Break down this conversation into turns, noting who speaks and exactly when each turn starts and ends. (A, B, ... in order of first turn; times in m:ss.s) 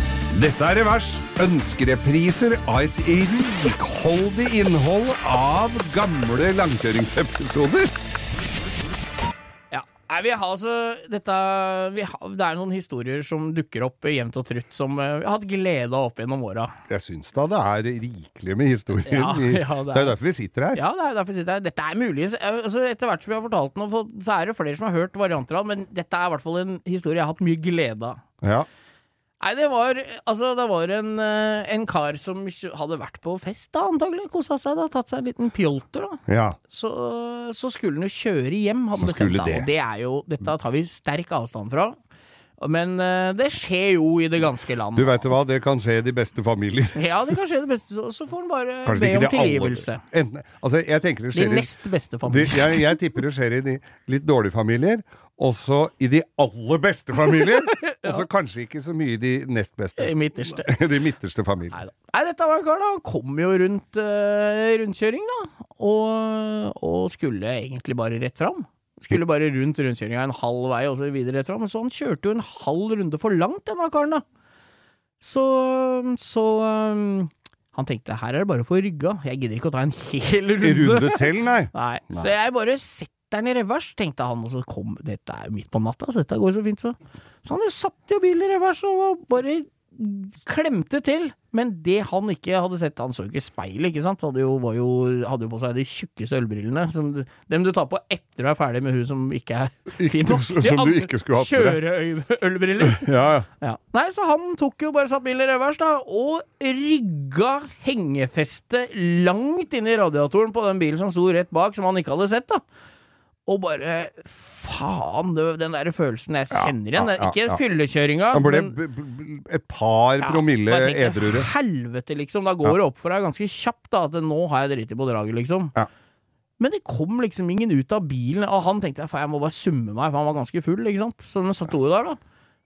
0:00.3-0:07.9 A
0:09.7-0:16.8 B
0:16.9-0:20.8 A
0:19.1-0:20.2 B
0:20.7-0:28.2 B
0:28.4-0:28.7 A
0:29.4-0:41.9 B
0:36.3-0:36.6 A
0:38.9-0:39.7 A
0:42.6-0:45.3 B
0:44.9-0:47.0 A
0:46.9-0:50.0 B
0:48.8-1:01.8 A
0:51.3-0:53.0 B
0:57.2-0:58.2 B
1:00.0-1:00.7 B
1:01.7-1:14.2 B
1:15.2-1:52.6 B
1:20.6-1:22.3 A
1:40.0-1:41.8 A
1:42.8-1:43.5 A
1:53.5-1:58.8 B
1:56.5-1:57.6 A
1:58.3-2:01.5 A
2:00.2-2:05.7 B
2:06.6-2:12.2 B